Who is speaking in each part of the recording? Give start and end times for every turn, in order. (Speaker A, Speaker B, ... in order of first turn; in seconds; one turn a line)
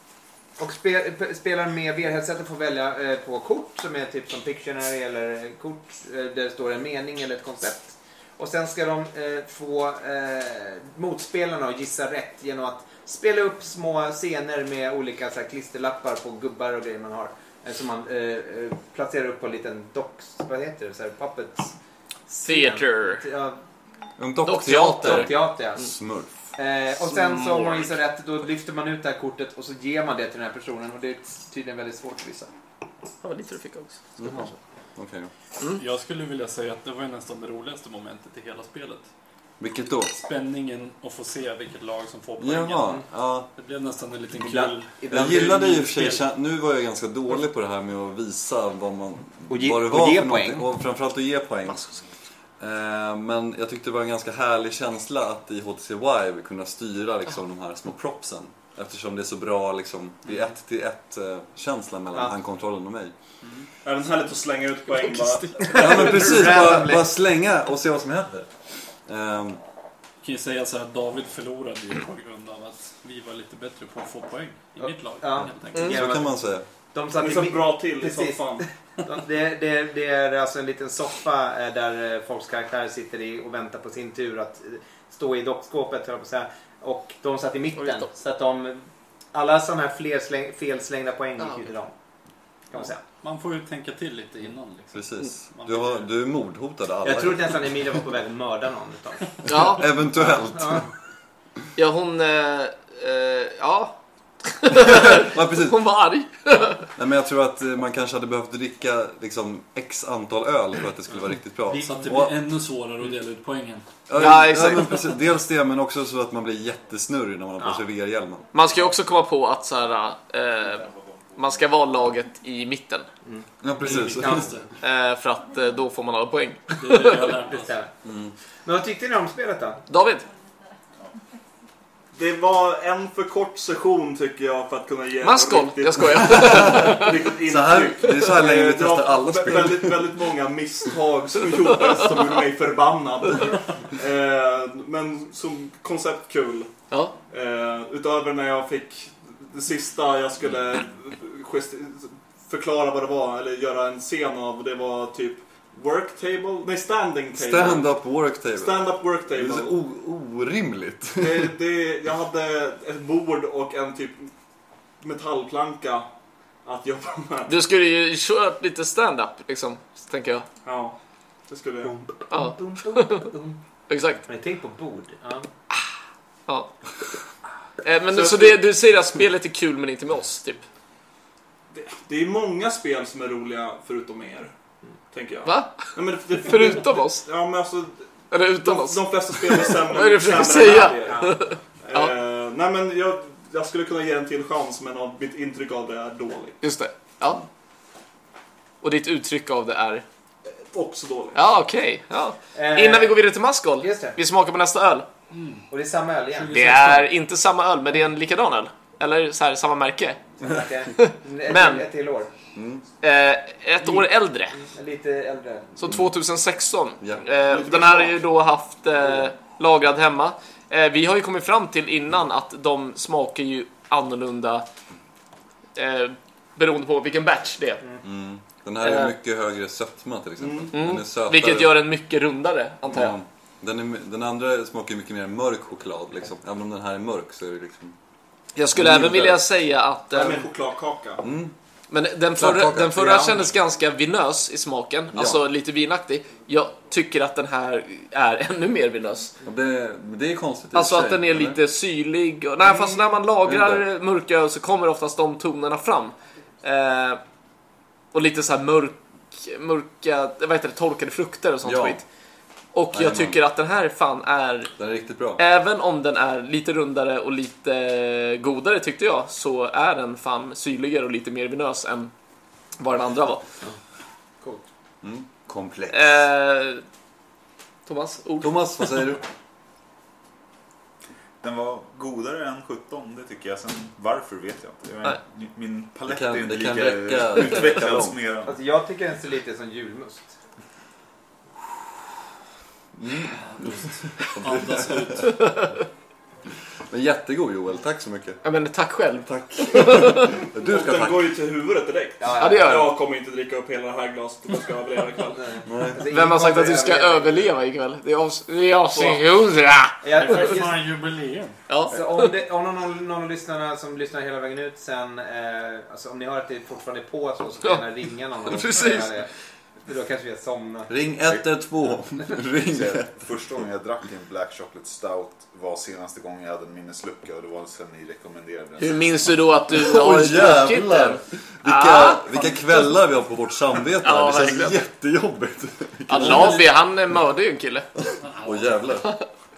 Speaker A: 0.6-21.7
Speaker A: 22.3-23.6
Speaker B: 22.4-23.2
Speaker C: 24.2-26.4
Speaker B: 24.4-25.4
Speaker A: 25.0-25.9
Speaker A: 26.6-32.5
Speaker B: 27.1-27.9
Speaker B: 33.2-34.5
Speaker C: 34.2-35.3
Speaker D: 35.8-39.1
Speaker C: 39.6-40.2
Speaker D: 40.2-45.4
Speaker C: 42.4-43.5
Speaker A: 44.3-46.1
Speaker C: 45.1-51.9
Speaker A: 49.5-50.6
Speaker C: 52.6-63.1
Speaker D: 63.4-63.7
Speaker E: 63.9-66.2
Speaker B: 65.1-65.9
Speaker A: 65.7-67.1
Speaker C: 65.8-68.5
Speaker C: 69.1-69.6
Speaker D: 70.2-76.0
Speaker A: 74.8-91.9
Speaker C: 75.4-76.7
Speaker B: 75.7-76.0
Speaker E: 77.2-78.7
Speaker B: 87.8-88.1
Speaker A: 92.7-93.0
Speaker D: 93.2-96.1
Speaker C: 94.9-97.6
Speaker A: 97.0-99.5
Speaker B: 99.5-99.8
Speaker C: 99.6-100.9
Speaker A: 100.1-100.9
Speaker B: 101.8-106.9
Speaker C: 104.7-105.8
Speaker C: 107.0-112.4
Speaker A: 111.7-112.0
Speaker D: 111.8-113.8
Speaker C: 114.1-118.5
Speaker B: 114.2-115.0
Speaker A: 117.6-117.8
Speaker B: 118.5-123.1
Speaker A: 123.2-124.6
Speaker C: 123.6-124.5
Speaker D: 123.8-124.7
Speaker B: 124.8-127.4
Speaker D: 126.8-127.7
Speaker A: 127.5-127.9
Speaker C: 128.0-128.3
Speaker A: 128.7-129.8
Speaker B: 129.9-130.3
Speaker E: 132.1-146.7
Speaker B: 135.2-137.1
Speaker C: 136.5-136.9
Speaker C: 137.4-140.1
Speaker E: 147.3-157.9
Speaker C: 157.3-161.5
Speaker E: 158.5-159.7
Speaker E: 161.2-164.3
Speaker E: 165.0-166.1
Speaker E: 166.7-167.5
Speaker B: 167.5-170.5
Speaker E: 170.7-171.0
Speaker E: 171.5-171.9
Speaker A: 172.1-173.6
Speaker B: 172.3-173.3
Speaker B: 173.9-174.2
Speaker A: 174.3-175.5
Speaker B: 177.8-180.6
Speaker E: 178.1-178.6
Speaker E: 181.7-184.5
Speaker E: 185.1-188.1
Speaker B: 185.4-187.2
Speaker B: 188.3-192.1
Speaker E: 188.6-191.3
Speaker A: 191.1-191.4
Speaker E: 191.8-196.6
Speaker B: 196.6-197.4
Speaker B: 198.8-200.1
Speaker E: 200.7-201.4
Speaker B: 201.3-205.1
Speaker A: 202.6-203.2
Speaker A: 203.8-204.2
Speaker D: 205.3-205.7
Speaker A: 205.7-206.6
Speaker D: 206.3-207.1
Speaker B: 206.5-210.2
Speaker A: 210.4-212.3
Speaker B: 210.9-211.9
Speaker C: 212.5-212.8
Speaker B: 213.0-214.6
Speaker A: 214.6-215.9
Speaker B: 215.8-224.7
Speaker E: 217.5-218.2
Speaker B: 225.8-227.8
Speaker C: 228.0-231.8
Speaker B: 228.8-229.1
Speaker E: 230.4-230.8
Speaker B: 230.7-233.2
Speaker C: 232.8-237.9
Speaker B: 238.6-240.5
Speaker C: 238.7-239.4
Speaker E: 240.1-241.2
Speaker C: 241.2-241.5
Speaker B: 241.9-249.3
Speaker C: 242.4-243.4
Speaker C: 245.1-245.4
Speaker C: 249.4-251.6
Speaker B: 250.7-257.2
Speaker A: 252.7-253.0
Speaker C: 253.4-253.8
Speaker B: 258.1-262.0
Speaker C: 261.6-262.0
Speaker B: 262.7-264.7
Speaker C: 262.9-263.4
Speaker C: 264.8-265.4
Speaker B: 265.4-272.1
Speaker B: 272.8-273.4
Speaker C: 275.0-276.2
Speaker B: 275.9-276.8
Speaker B: 277.9-278.6
Speaker C: 278.4-279.2
Speaker F: 281.4-288.6
Speaker C: 286.1-288.2
Speaker A: 288.5-290.4
Speaker C: 293.0-295.3
Speaker D: 293.4-295.5
Speaker B: 295.2-295.8
Speaker C: 296.9-298.4
Speaker B: 298.4-300.4
Speaker C: 299.3-301.4
Speaker E: 300.6-305.6
Speaker A: 302.2-302.9
Speaker B: 302.4-302.9
Speaker A: 305.5-307.5
Speaker C: 305.7-306.0
Speaker B: 306.1-310.0
Speaker E: 308.9-309.2
Speaker A: 310.0-310.8
Speaker D: 310.2-311.6
Speaker B: 311.7-312.3
Speaker A: 311.9-319.3
Speaker B: 318.5-319.1
Speaker A: 319.9-320.9
Speaker C: 320.9-323.3
Speaker F: 322.6-329.0
Speaker B: 328.8-332.2
Speaker C: 329.7-336.7
Speaker D: 332.3-332.9
Speaker B: 334.0-334.8
Speaker B: 336.1-337.9
Speaker C: 338.0-339.1
Speaker D: 338.2-339.0